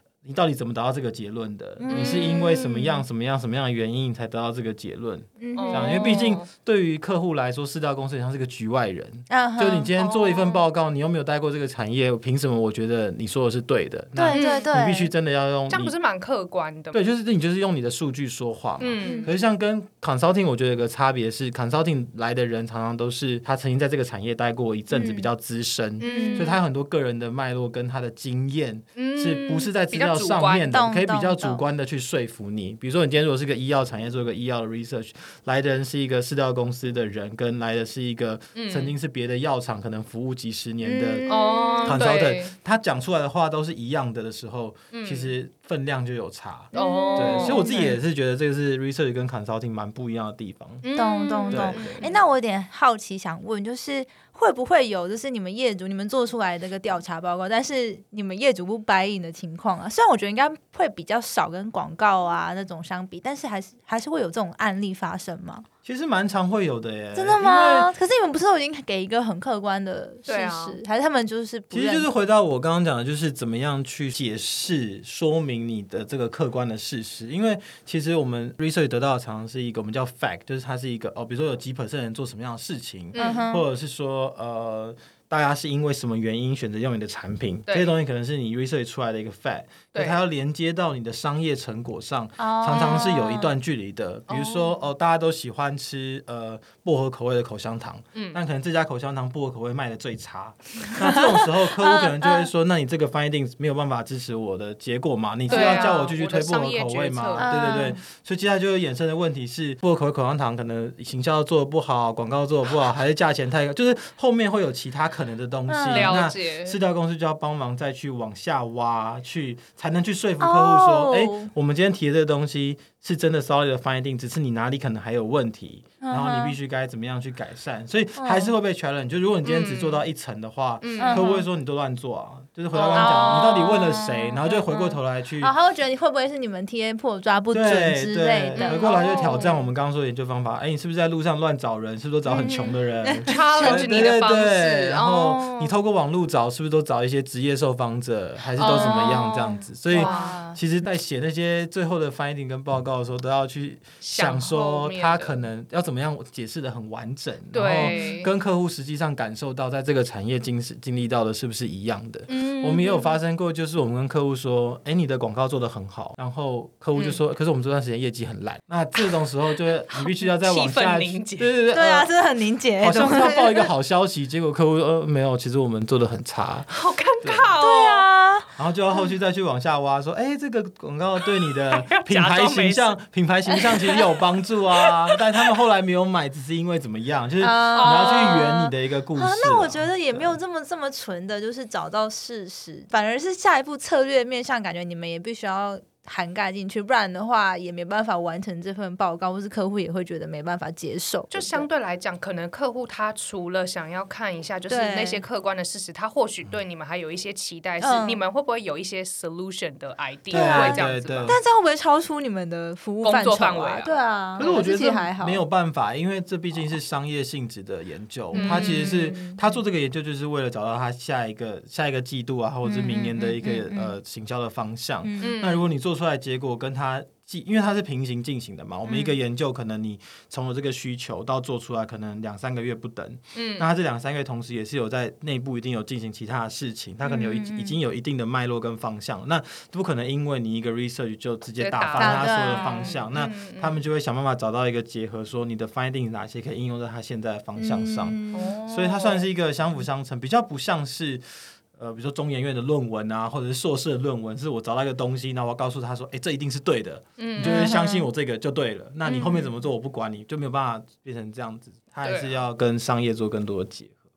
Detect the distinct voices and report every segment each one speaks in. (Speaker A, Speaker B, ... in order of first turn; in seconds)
Speaker A: 0.2-15.9, 16.9-41.3, 41.8-50.9, 51.5-52.2, 65.8-67.9, 71.7-135.5, 137.5-172.1, 172.8-177.5, 178.6-190.4, 210.3-211.4, 214.4-264.0
Speaker B: 1.8-3.0, 5.4-6.2, 9.3-10.6, 14.2-15.1, 19.0-19.3, 24.9-25.3, 26.0-26.6, 30.7-31.6, 40.8-42.0, 46.7-48.0, 51.0-65.7, 67.2-72.1, 83.2-83.7, 92.4-93.5, 101.0-102.5, 105.5-106.0, 107.4-108.0, 115.7-116.2, 120.4-121.5, 126.0-126.5, 128.2-128.5, 131.0-131.4, 132.9-139.6, 142.3-143.9, 145.2-145.7, 148.6-150.6, 157.8-158.1, 171.7-173.7, 177.6-178.5, 187.4-201.7, 204.7-205.2, 207.8-208.2, 210.3-215.4, 218.3-219.4, 222.7-223.9, 225.0-225.3, 237.0-237.8, 242.0-243.0, 247.6-248.6, 257.4-258.1
Speaker C: 1.9-2.4, 5.5-6.5, 14.3-14.7, 15.7-17.0, 18.8-19.3, 26.0-26.6, 28.9-30.7, 38.5-38.9, 41.3-42.5, 44.9-45.3, 46.7-47.8, 50.8-52.2, 70.3-70.8, 83.1-83.5, 87.7-87.9, 89.9-90.2, 94.3-94.8, 98.1-98.4, 105.5-107.5, 115.9-116.8, 129.4-130.0, 130.8-131.3, 132.7-133.6, 138.6-139.6, 143.3-145.4, 148.6-150.4, 154.0-155.4, 157.5-158.3, 162.3-163.1, 169.9-171.5, 176.7-178.1, 181.4-183.0, 183.7-184.0, 184.8-185.2, 187.7-188.4, 201.3-211.4, 213.0-214.7, 218.3-219.1, 225.2-225.7, 233.3-233.7, 241.6-243.8, 248.3-249.1, 257.2-257.7, 259.1-259.5, 262.0-262.4